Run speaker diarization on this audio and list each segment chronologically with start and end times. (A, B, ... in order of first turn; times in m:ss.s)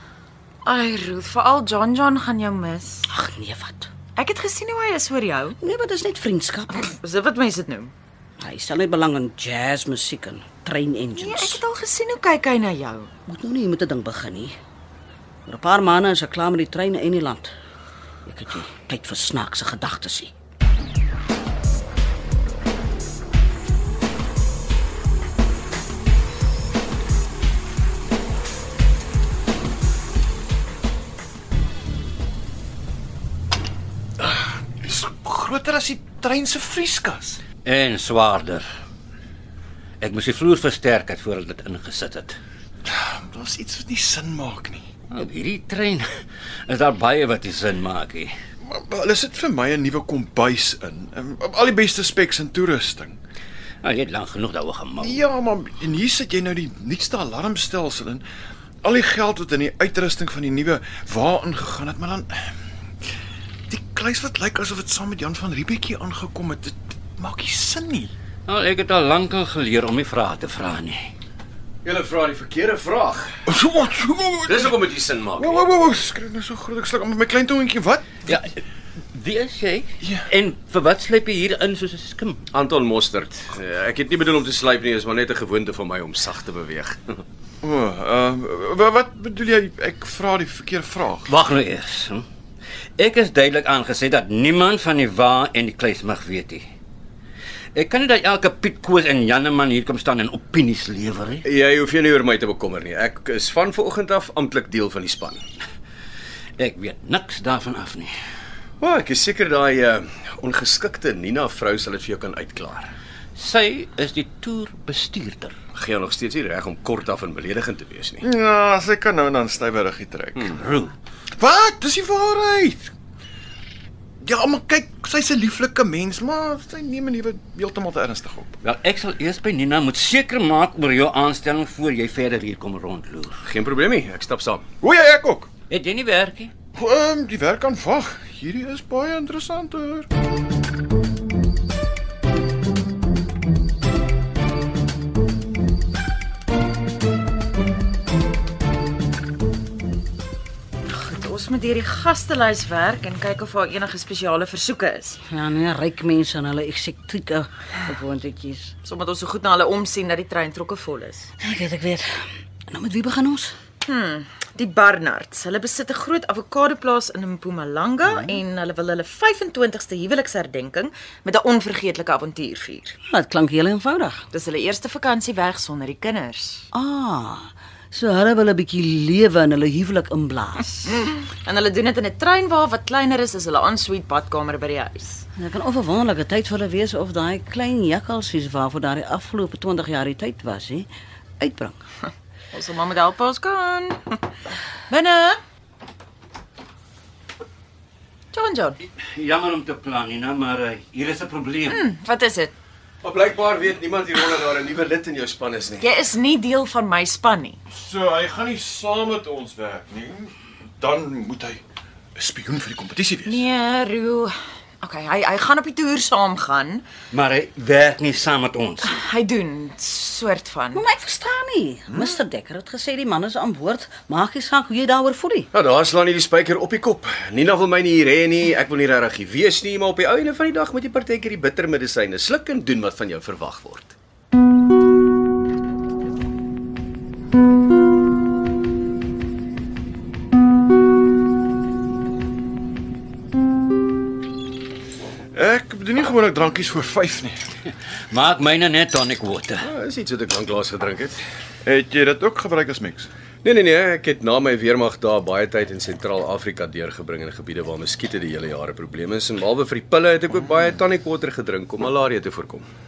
0:00.6-0:03.1 A
0:03.1-0:03.9 B
0:04.2-0:05.6 A
0:05.6-0:06.9 B
0:06.8-0:07.9 A
0:08.4-0:11.6 B
0:11.2-0:13.1 A
0:13.3-0:14.6 B
0:15.5-0:17.5 B
0:18.3-0:20.3 B
0:34.2-0:37.4 C
0:37.6-0:38.6 D
0:40.0-0:42.4 D
0:42.9-0:44.9 C
0:45.1-0:46.1 D
0:46.7-0:48.3 D
0:48.6-0:53.2 C
0:53.8-0:55.2 D
0:55.0-0:58.2 C
0:58.8-1:02.5 C
1:03.7-1:08.1 C
1:08.5-1:11.1 D
1:11.8-1:13.4 E
1:13.5-1:14.8 C
1:14.5-1:15.6 E
1:15.4-1:18.2 C
1:18.3-1:18.6 D
1:19.1-1:22.4 D
1:22.5-1:27.2 E
1:27.6-1:31.4 C
1:31.3-1:32.2 D
1:33.0-1:36.6 D
1:37.8-1:41.5 D
1:41.4-1:45.4 E
1:46.6-1:48.1 D
1:48.8-1:52.9 E
1:53.4-1:55.6 D
1:55.8-1:58.2 E
1:58.2-2:00.6 C
2:00.6-2:00.9 D
2:01.4-2:02.9 C
2:04.2-2:08.6 C
2:08.6-2:13.3 D
2:13.5-2:14.6 E
2:14.8-2:15.5 C
2:15.7-2:16.5 D
2:16.8-2:20.1 C
2:30.9-2:35.2 A
2:35.3-2:38.8 B
2:38.8-2:41.3 A
2:41.4-2:43.6 B
2:43.8-2:53.0 A
2:48.1-2:48.4 B
2:53.1-2:54.2 B
2:54.3-2:56.7 A
2:56.7-3:01.0 B
3:00.9-3:05.3 A
3:05.4-3:10.9 B
3:11.4-3:11.8 B
3:12.5-3:14.2 A
3:14.9-3:15.4 A
3:18.3-3:18.8 A
3:19.0-3:21.9 D
3:21.7-3:22.5 A
3:23.0-3:25.9 E
3:25.8-3:27.6 A
3:27.7-3:31.6 C
3:32.2-3:33.4 C
3:33.3-3:36.8 A
3:37.1-3:39.0 D
3:38.8-3:40.8 A
3:40.7-3:45.5 B
3:45.5-3:53.9 E
4:05.3-4:07.4 C
4:08.1-4:09.7 D
4:09.6-4:11.2 E
4:11.6-4:13.1 C
4:13.4-4:22.6 E